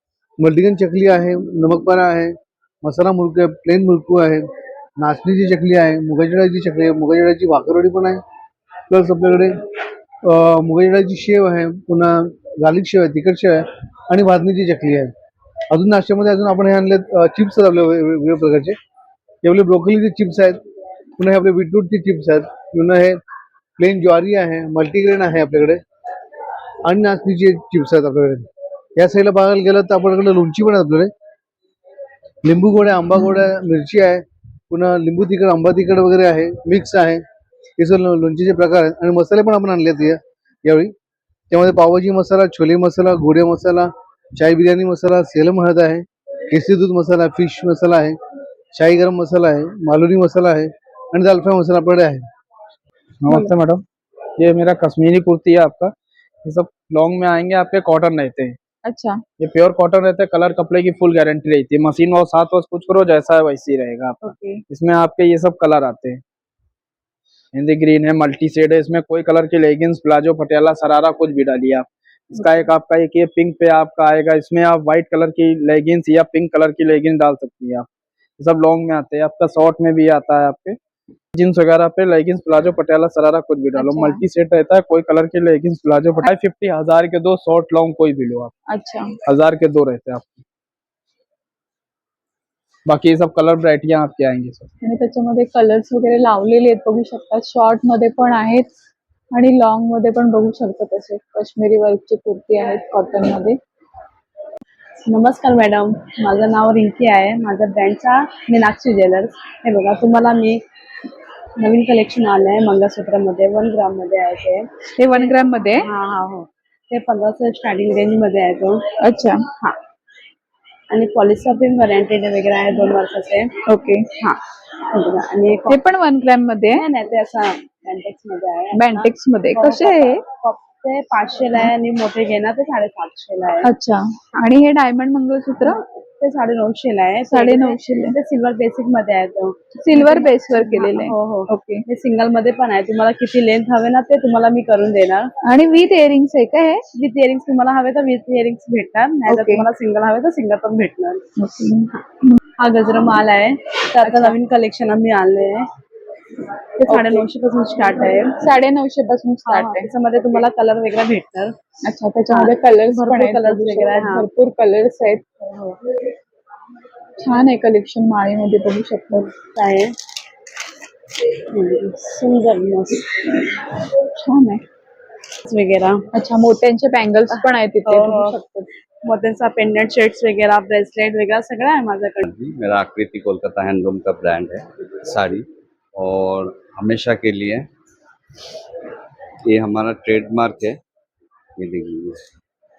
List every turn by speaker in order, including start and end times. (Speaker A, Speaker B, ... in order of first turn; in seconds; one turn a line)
Speaker A: 0.4-4.5
Speaker A: 5.0-8.2
Speaker A: 8.9-9.6
Speaker A: 10.2-15.1
Speaker A: 15.7-18.8
Speaker A: 19.4-20.6
Speaker A: 21.2-23.2
Speaker A: 23.8-25.8
Speaker A: 26.8-31.1
Speaker A: 32.4-37.2
Speaker A: 37.8-40.9
Speaker A: 41.5-48.2
Speaker A: 48.7-52.3
Speaker B: 53.2-53.8
Speaker B: 54.4-55.9
Speaker B: 56.4-58.5
Speaker C: 58.9-59.2
Speaker B: 59.4-66.2
Speaker C: 64.2-64.6
Speaker B: 67.5-77.9
Speaker B: 78.4-80.8
Speaker B: 81.3-88.5
Speaker C: 83.8-84.2
Speaker C: 88.7-89.2
Speaker B: 89.2-90.4
Speaker B: 92.8-94.7
Speaker C: 94.8-98.7
Speaker C: 99.3-103.6
Speaker D: 105.1-110.6
Speaker D: 111.6-118.8
Speaker C: 115.0-115.9
Speaker C: 119.0-119.5
Speaker D: 120.9-123.5
Speaker C: 123.7-124.4
Speaker D: 124.9-125.8
Speaker C: 125.7-126.8
Speaker D: 126.7-133.7
Speaker C: 128.7-130.2
Speaker C: 133.6-135.8
Speaker D: 135.6-145.3
Speaker C: 137.3-138.2
Speaker C: 139.8-141.8
Speaker C: 145.4-146.8
Speaker D: 146.9-151.2
Speaker C: 149.3-149.7
Speaker C: 151.4-151.9
Speaker D: 152.6-155.7
Speaker C: 154.0-154.3
Speaker D: 156.8-158.4
Speaker C: 156.9-157.2
Speaker C: 158.4-159.9
Speaker D: 159.4-161.5
Speaker C: 161.8-165.4
Speaker D: 162.3-164.3
Speaker C: 167.2-169.3
Speaker D: 169.5-169.9
Speaker D: 171.5-173.2
Speaker C: 174.2-174.6
Speaker D: 175.5-176.0
Speaker C: 176.1-178.7
Speaker D: 177.8-178.3
Speaker D: 179.0-182.3
Speaker E: 182.3-187.7
Speaker E: 189.4-190.8
Speaker E: 191.6-192.3